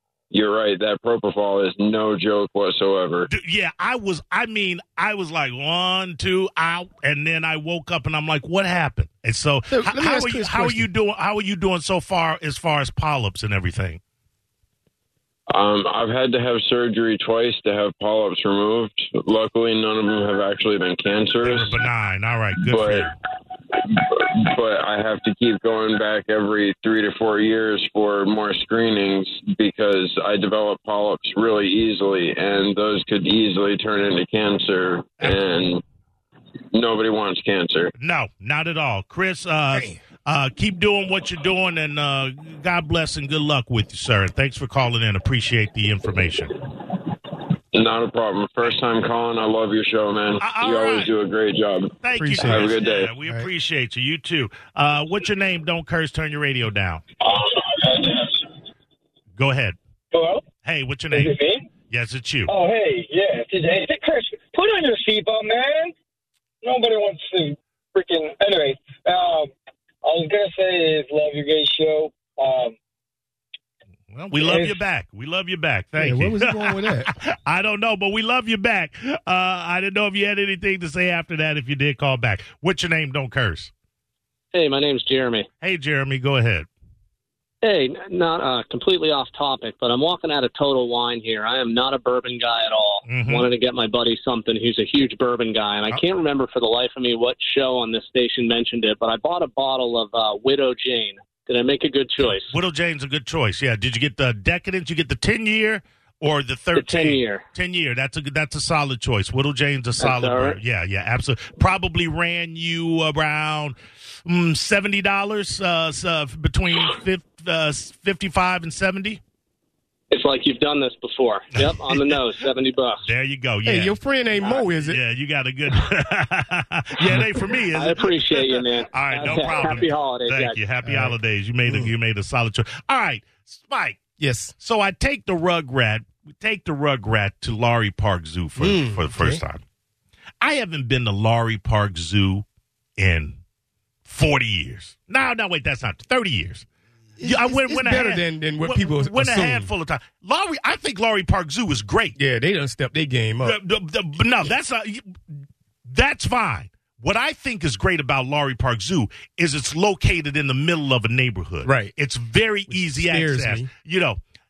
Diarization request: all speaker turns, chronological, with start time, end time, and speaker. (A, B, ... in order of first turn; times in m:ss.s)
0:00.3-0:03.3 A
0:03.3-0:14.0 B
0:09.7-0:10.9 C
0:15.5-0:21.8 A
0:21.4-0:23.1 B
0:22.6-0:23.1 A
0:23.7-0:35.8 A
0:36.7-0:37.9 A
0:38.0-0:46.6 B
0:39.7-0:40.0 C
0:47.7-0:53.1 A
0:50.4-0:51.1 B
0:52.0-0:57.0 B
0:52.2-0:53.5 C
0:59.4-0:59.8 B
1:00.1-1:00.4 D
1:00.6-1:01.4 B
1:01.1-1:01.6 D
1:01.9-1:02.5 B
1:02.5-1:05.9 D
1:06.6-1:09.5 D
1:10.0-1:12.7 D
1:14.1-1:23.7 B
1:14.4-1:14.8 D
1:16.0-1:17.1 C
1:24.5-1:25.5 E
1:25.6-1:26.7 B
1:27.6-1:42.5 E
1:33.0-1:33.5 B
1:42.5-1:59.2 B
1:46.7-1:47.4 E
1:50.0-1:50.6 E
2:00.1-2:03.0 E
2:01.6-2:02.2 B
2:03.0-2:04.0 B
2:03.6-2:05.0 C
2:04.5-2:14.0 B
2:07.7-2:10.6 E
2:10.8-2:11.2 C
2:14.2-2:14.6 C
2:14.6-2:19.6 B
2:18.6-2:19.4 C
2:20.4-2:22.4 B
2:23.0-2:23.4 B
2:24.0-2:26.7 B
2:27.2-2:29.7 C
2:27.2-2:32.2 B
2:32.2-2:33.6 C
2:33.4-2:35.2 B
2:35.8-2:44.2 B
2:41.6-2:41.9 C
2:42.7-2:43.7 C